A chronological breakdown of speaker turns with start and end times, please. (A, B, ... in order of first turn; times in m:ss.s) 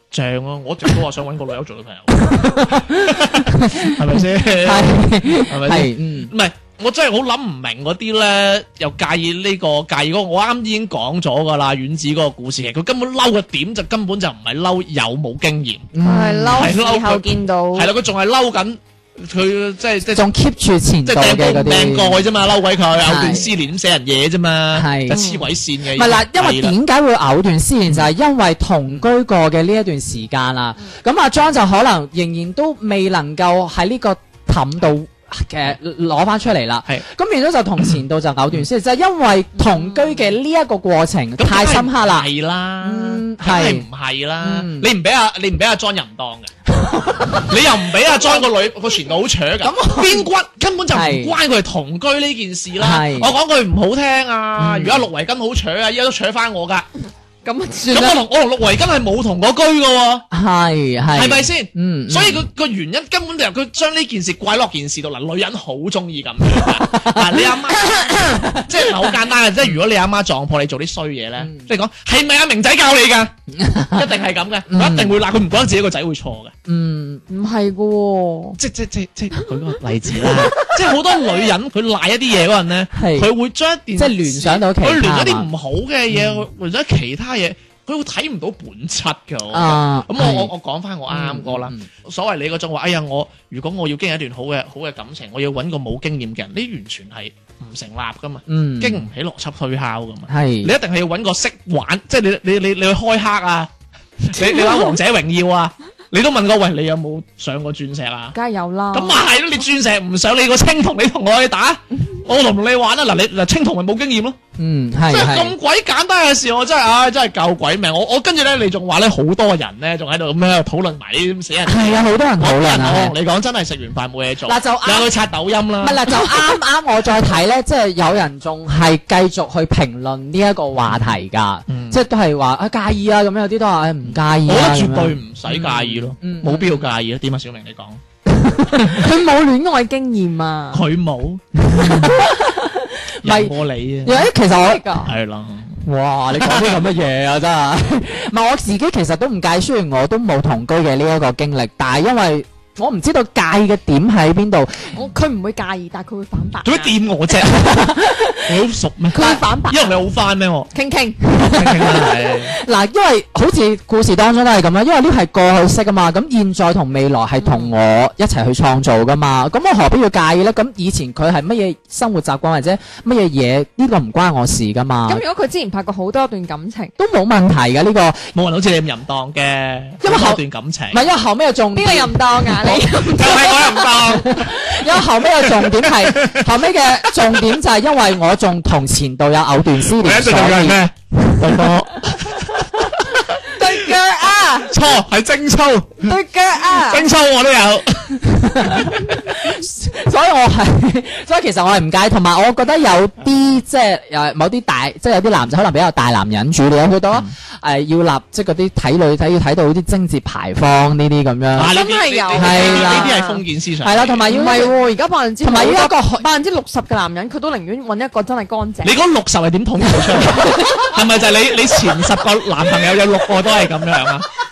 0:00.1-0:15.9 A
0:02.2-0:06.3 B
0:15.9-0:16.7 B
0:16.0-0:17.9 C
0:16.5-0:20.3 A
0:20.1-0:22.2 B
0:21.1-0:26.8 A
0:23.0-0:23.5 B
0:24.7-0:25.3 B
0:25.1-0:25.4 C
0:25.9-0:42.3 B
0:39.6-0:40.1 C
0:41.4-0:46.5 A
0:42.8-0:43.9 B
0:44.4-0:44.9 B
0:46.7-0:47.5 B
0:47.4-0:56.9 A
0:49.6-0:50.3 B
0:50.9-0:51.4 B
0:52.8-0:53.3 B
0:54.6-0:55.1 B
0:57.4-0:58.2 C
0:57.9-1:00.3 A
1:00.3-1:02.5 B
1:01.1-1:13.3 A
1:06.8-1:07.4 B
1:13.5-1:14.1 B
1:13.9-1:16.5 A
1:14.7-1:15.2 B
1:16.7-1:17.2 B
1:17.3-1:18.6 C
1:18.6-1:43.7 A
1:22.9-1:23.3 B
1:24.0-1:25.5 B
1:26.1-1:26.5 B
1:29.5-1:30.5 B
1:31.1-1:31.9 B
1:38.5-1:39.1 B
1:40.3-1:40.7 B
1:44.2-1:48.4 A
1:44.4-1:45.0 C
1:48.3-1:49.2 C
1:48.9-1:54.4 A
1:54.6-1:55.6 B
1:55.1-2:06.0 A
2:01.7-2:03.2 B
2:04.4-2:05.1 B
2:05.8-2:16.9 B
2:06.1-2:06.4 C
2:11.7-2:12.0 A
2:14.4-2:18.0 A
2:18.3-2:19.1 B
2:18.8-2:20.8 C
2:20.7-2:22.1 A
2:21.6-2:24.9 B
2:23.2-2:24.3 A
2:24.5-2:25.1 C
2:25.1-2:26.9 A
2:25.8-2:34.9 B
2:34.9-2:37.0 C
2:36.6-2:40.7 A
2:37.4-2:38.6 B
2:39.1-2:40.0 C
2:40.7-2:41.4 C
2:41.3-2:55.2 B
2:41.5-2:42.6 A
2:47.4-2:47.7 C
2:55.1-2:56.9 C
2:57.0-2:58.3 B
2:58.3-3:01.0 A
3:00.0-3:02.8 B
3:01.7-3:04.3 C
3:02.6-3:06.5 A
3:04.0-3:12.8 B
3:07.0-3:07.5 A
3:09.9-3:13.5 A
3:13.5-3:14.8 C
3:14.7-3:19.0 A
3:16.0-3:17.1 C
3:18.2-3:31.7 B
3:31.6-3:34.6 A
3:31.6-3:33.4 C
3:32.3-3:33.2 B
3:33.8-3:34.8 B
3:34.3-3:39.0 C
3:35.4-3:36.2 B
3:38.8-3:44.3 A
3:40.2-3:40.9 C